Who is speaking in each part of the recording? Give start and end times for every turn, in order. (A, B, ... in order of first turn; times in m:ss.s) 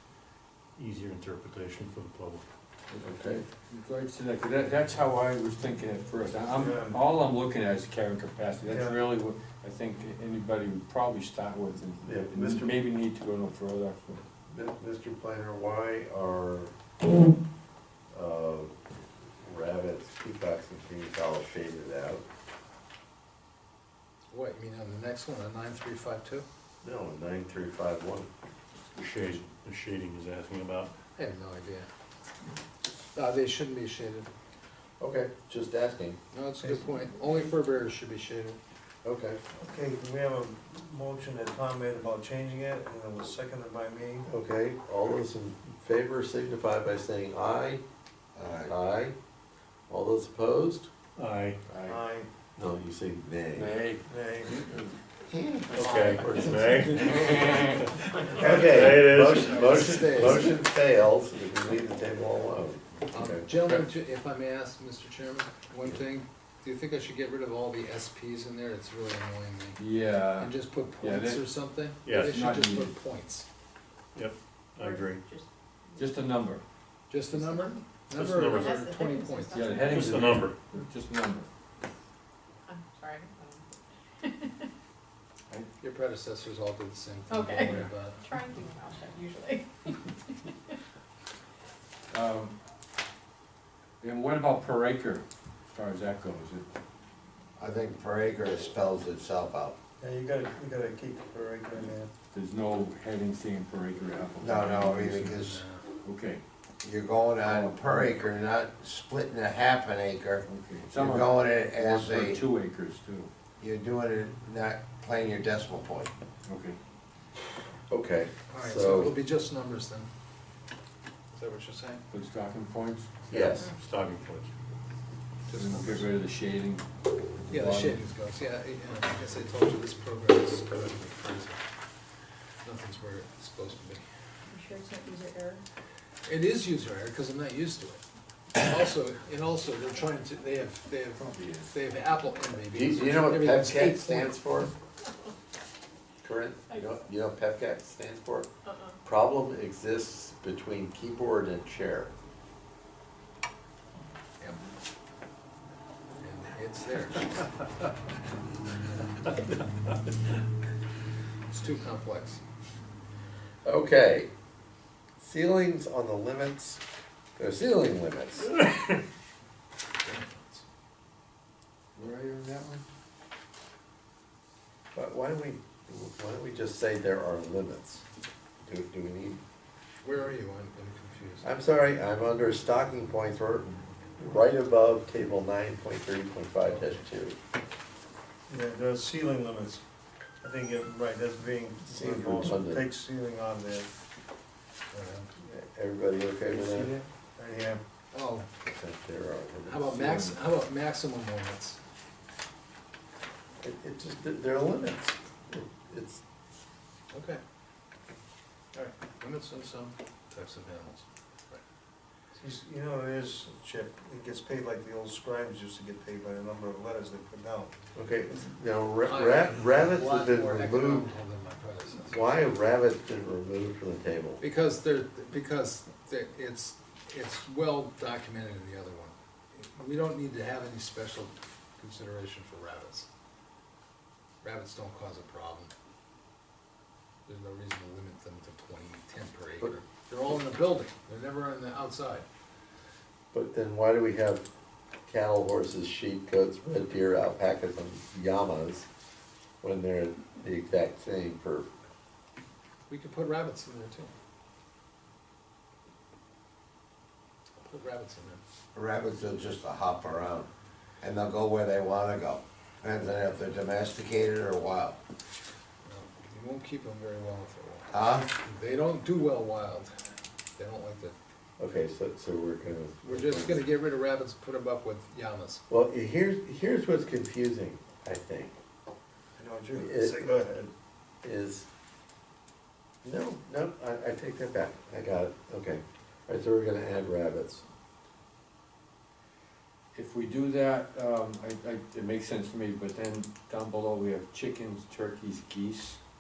0:00.8-0:02.4 A
0:02.9-0:14.2 B
0:03.0-0:03.4 C
0:06.5-0:07.0 D
0:08.7-0:09.0 D
0:12.0-0:12.8 C
0:14.5-0:16.7 C
0:18.1-0:18.7 C
0:19.4-0:22.2 C
0:24.3-0:26.5 E
0:26.8-0:28.3 C
0:29.0-0:30.9 A
0:31.2-0:31.9 E
0:33.1-0:34.3 E
0:35.0-0:36.2 C
0:36.3-0:38.6 E
0:36.6-0:37.1 D
0:39.0-0:39.4 C
0:39.6-0:44.3 D
0:44.3-0:47.8 C
0:48.4-0:48.7 F
0:48.6-0:49.2 C
0:49.9-0:50.9 C
0:51.2-0:51.6 A
0:51.7-0:52.0 B
0:51.8-0:52.3 D
0:52.6-0:53.8 C
0:53.6-0:55.0 B
0:54.1-0:54.5 D
0:55.3-0:57.2 C
0:55.7-0:56.2 B
0:55.7-0:59.8 A
0:57.0-0:57.8 B
0:58.3-0:59.0 D
0:58.4-1:03.4 C
0:59.4-1:00.6 E
1:03.1-1:09.8 E
1:03.5-1:03.8 B
1:09.8-1:11.4 B
1:10.4-1:13.5 E
1:12.0-1:12.4 A
1:12.1-1:12.9 B
1:14.1-1:15.2 A
1:14.8-1:16.0 G
1:16.0-1:16.6 B
1:17.1-1:19.7 E
1:17.3-1:17.8 G
1:18.1-1:18.8 A
1:18.5-1:20.1 G
1:19.5-1:21.5 B
1:19.7-1:20.6 A
1:22.7-1:24.7 G
1:25.8-1:28.3 E
1:27.3-1:30.8 G
1:32.1-1:32.6 B
1:34.0-1:36.6 B
1:37.6-1:39.8 F
1:40.0-1:42.1 D
1:42.3-1:45.4 B
1:44.4-1:45.6 F
1:45.2-1:45.8 E
1:46.0-1:46.4 B
1:46.8-1:50.4 F
1:47.4-1:48.0 B
1:50.5-1:53.3 B
1:51.0-1:52.4 F
1:53.6-1:56.1 F
1:56.4-1:56.8 B
1:57.9-1:59.2 C
1:58.5-2:00.1 E
2:01.3-2:02.0 E
2:02.1-2:03.1 B
2:03.3-2:03.7 C
2:03.3-2:04.5 A
2:05.5-2:06.2 E
2:05.5-2:06.9 B
2:07.4-2:08.0 B
2:07.5-2:11.6 E
2:12.6-2:14.0 E
2:14.5-2:15.6 G
2:16.3-2:18.0 E
2:18.6-2:24.4 E
2:21.2-2:21.7 B
2:22.7-2:24.7 C
2:26.2-2:28.5 C
2:28.7-2:29.0 G
2:29.0-2:32.1 C
2:34.4-2:34.6 E
2:36.2-2:37.6 E
2:41.5-2:42.4 E
2:43.6-2:44.3 C
2:45.2-2:46.8 C
2:47.4-2:48.6 C
2:50.0-2:50.6 E
2:52.0-2:52.8 B
2:54.9-2:58.0 C
2:58.6-2:59.4 C
3:00.0-3:01.5 E
3:01.4-3:07.4 C
3:08.5-3:09.8 D
3:10.4-3:13.9 D
3:11.8-3:12.8 C
3:14.9-3:15.3 E
3:15.4-3:16.9 C
3:16.5-3:17.8 D
3:18.1-3:18.5 E
3:18.7-3:19.8 C
3:19.6-3:21.8 E
3:19.9-3:20.4 B
3:23.6-3:26.2 C
3:27.1-3:27.4 E
3:28.7-3:31.6 E
3:32.3-3:37.7 D
3:37.9-3:41.1 C
3:39.0-3:42.4 E
3:42.0-3:44.4 C
3:44.4-3:53.1 E
3:54.4-3:55.7 E
3:57.3-4:02.3 E
4:03.3-4:04.4 C
4:05.1-4:08.9 C
4:09.6-4:11.7 C
4:12.9-4:14.1 E
4:17.6-4:18.4 E
4:18.8-4:20.5 F
4:21.0-4:25.0 F
4:25.8-4:30.0 E
4:27.9-4:28.3 F
4:30.6-4:31.2 E
4:31.6-4:33.6 C
4:33.0-4:35.6 E
4:35.7-4:38.6 C
4:39.4-4:40.7 D
4:39.7-4:40.3 C
4:41.2-4:41.7 C
4:43.0-4:47.6 C
4:49.9-4:56.0 B